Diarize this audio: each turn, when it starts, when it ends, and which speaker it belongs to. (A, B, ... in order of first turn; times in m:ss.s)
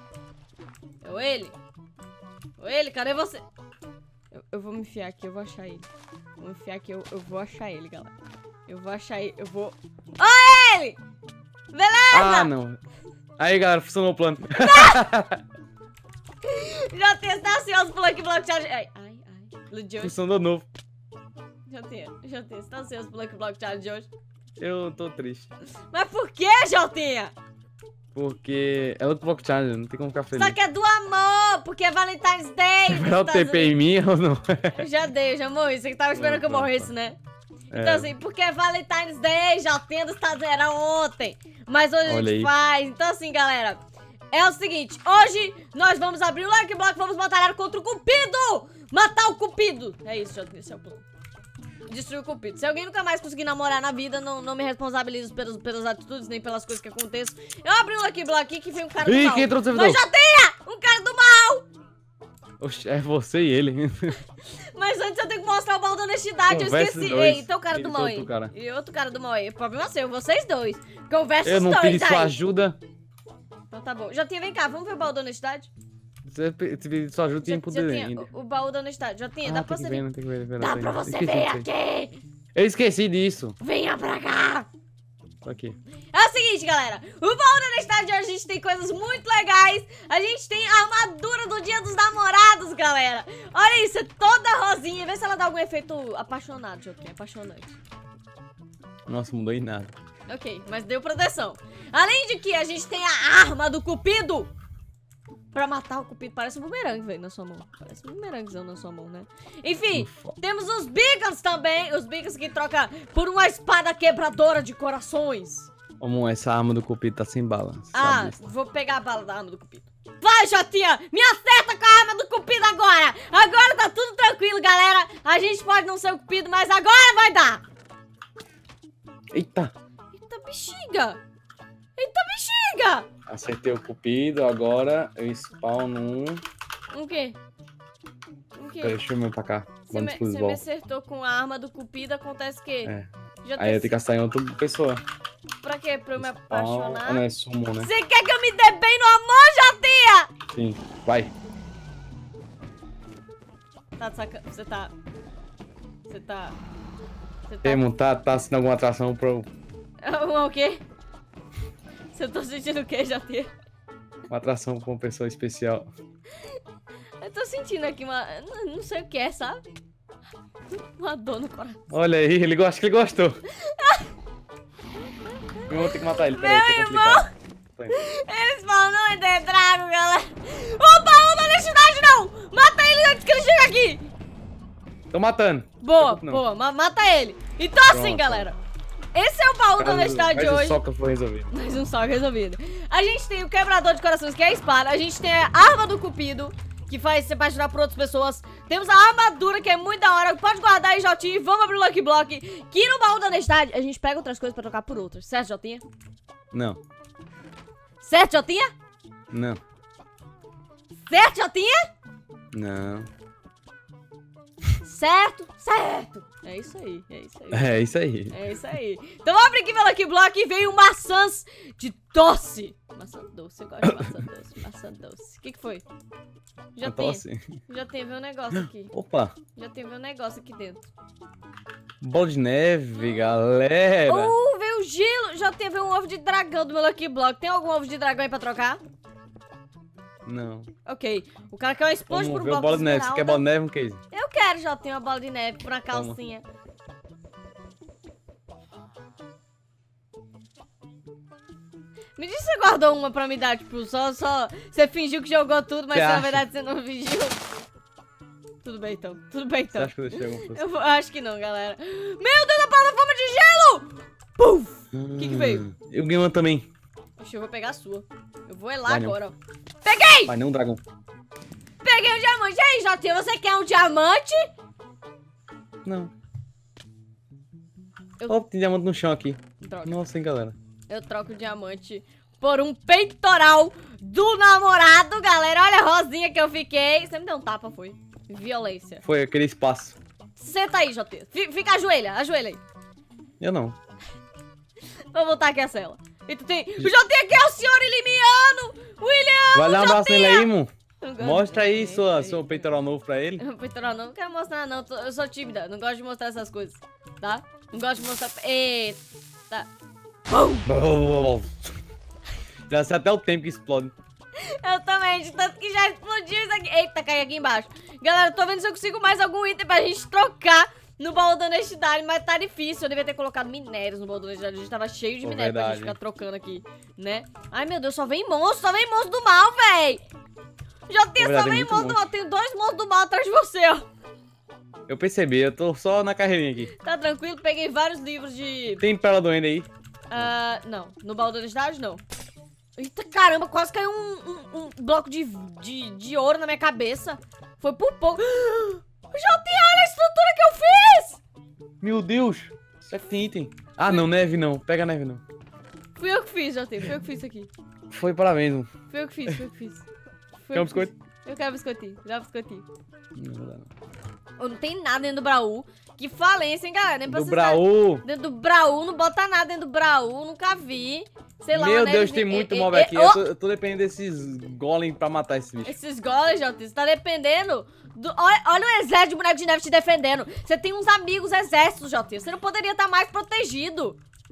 0:01.0-0:01.6 A
0:02.6-0:03.4 A
0:04.3-0:05.9 A
0:06.4-0:08.1 A
0:08.7-0:11.0 A
0:11.7-0:12.5 A
0:12.1-0:12.8 B
0:13.4-0:15.4 B
0:14.5-0:15.1 A
0:16.4-0:20.1 A
0:20.0-0:20.7 B
0:21.7-0:24.1 A
0:24.6-0:25.5 B
0:25.9-0:27.3 A
0:28.1-0:30.6 B
0:30.4-0:33.7 A
0:32.9-0:34.8 B
0:34.8-0:37.2 A
0:36.1-0:36.9 B
0:37.7-0:38.1 B
0:37.7-0:43.8 A
0:42.0-0:42.5 B
0:44.3-0:51.0 A
0:51.9-1:01.6 A
0:59.0-1:00.0 B
1:02.6-1:04.2 B
1:04.7-1:12.3 A
1:06.5-1:08.5 B
1:11.4-1:12.8 B
1:13.7-1:15.7 A
1:16.2-1:18.3 B
1:17.4-1:20.0 A
1:19.4-1:21.7 B
1:20.6-1:22.2 A
1:22.5-1:23.6 B
1:23.6-1:24.7 A
1:25.4-1:25.8 B
1:26.1-1:37.8 A
1:39.1-1:39.9 B
1:40.3-1:44.5 A
1:45.5-1:55.7 A
1:49.9-1:50.4 B
1:56.0-1:58.4 B
1:57.9-2:07.6 A
2:09.3-2:09.7 B
2:10.1-2:11.2 A
2:12.0-2:13.1 A
2:13.3-2:16.4 B
2:16.9-2:17.4 A
2:18.5-2:19.0 A
2:18.8-2:20.6 B
2:19.9-2:24.0 A
2:22.8-2:25.0 B
2:25.6-2:27.2 A
2:26.2-2:27.9 B
2:27.8-2:30.3 A
2:30.5-2:31.3 B
2:34.0-2:34.9 A
2:36.1-2:36.6 A
2:37.5-2:37.8 A
2:37.6-2:39.5 B
2:40.0-2:40.8 A
2:42.1-2:43.5 A
2:44.3-2:45.9 B
2:47.2-2:49.6 A
2:50.9-2:51.8 A
2:51.9-2:53.4 B
2:53.5-2:54.1 A
2:55.6-2:57.3 A
2:55.7-2:57.2 B
2:57.9-3:04.1 A
3:05.1-3:06.4 B
3:05.8-3:08.6 A
3:07.8-3:08.5 B
3:09.1-3:10.8 A
3:09.8-3:11.5 B
3:11.5-3:25.8 A
3:26.5-3:26.8 B
3:28.0-3:28.7 A
3:29.3-3:29.6 B
3:31.1-3:31.9 A
3:32.5-3:33.1 B
3:34.8-3:37.8 A
3:37.5-3:38.4 B
3:38.3-3:45.8 A
3:46.8-3:48.9 A
3:46.8-3:47.6 B
3:48.6-3:49.3 B
3:49.5-3:50.9 A
3:52.0-3:54.3 B
3:54.0-3:58.8 A
4:00.2-4:00.7 B
4:00.8-4:03.4 A
4:02.1-4:04.0 B
4:04.1-4:06.4 A
4:05.9-4:06.2 B
4:12.2-4:17.4 A
4:15.9-4:16.4 B
4:18.6-4:25.7 A
4:19.7-4:20.6 B
4:24.9-4:26.7 B
4:27.2-4:30.3 A
4:28.8-4:29.2 B
4:30.2-4:30.8 B
4:31.8-4:34.5 A
4:35.8-4:36.1 B
4:38.3-4:40.6 B
4:39.6-4:40.0 A
4:40.9-4:49.0 A
4:49.0-4:50.0 B
4:50.4-4:52.6 A
4:53.4-4:53.8 B
4:55.1-5:00.5 A
4:59.5-5:03.4 B
5:01.0-5:02.7 A
5:03.4-5:09.7 A
5:10.3-5:10.6 A
5:10.6-5:11.7 B
5:12.7-5:13.9 B
5:14.4-5:30.0 A
5:25.2-5:26.0 B
5:30.9-5:33.8 A
5:31.2-5:32.0 B
5:34.9-5:36.7 B
5:36.8-5:38.8 A
5:38.8-5:40.2 B
5:40.1-5:42.0 A
5:42.8-5:51.2 A
5:51.8-5:55.2 B
5:56.0-5:57.5 A
5:57.9-5:58.7 B
5:58.9-5:59.8 A
6:00.4-6:02.6 A
6:00.5-6:00.9 B
6:03.2-6:03.7 B
6:04.4-6:13.2 A
6:07.1-6:08.0 B
6:11.5-6:15.8 B
6:15.6-6:24.0 A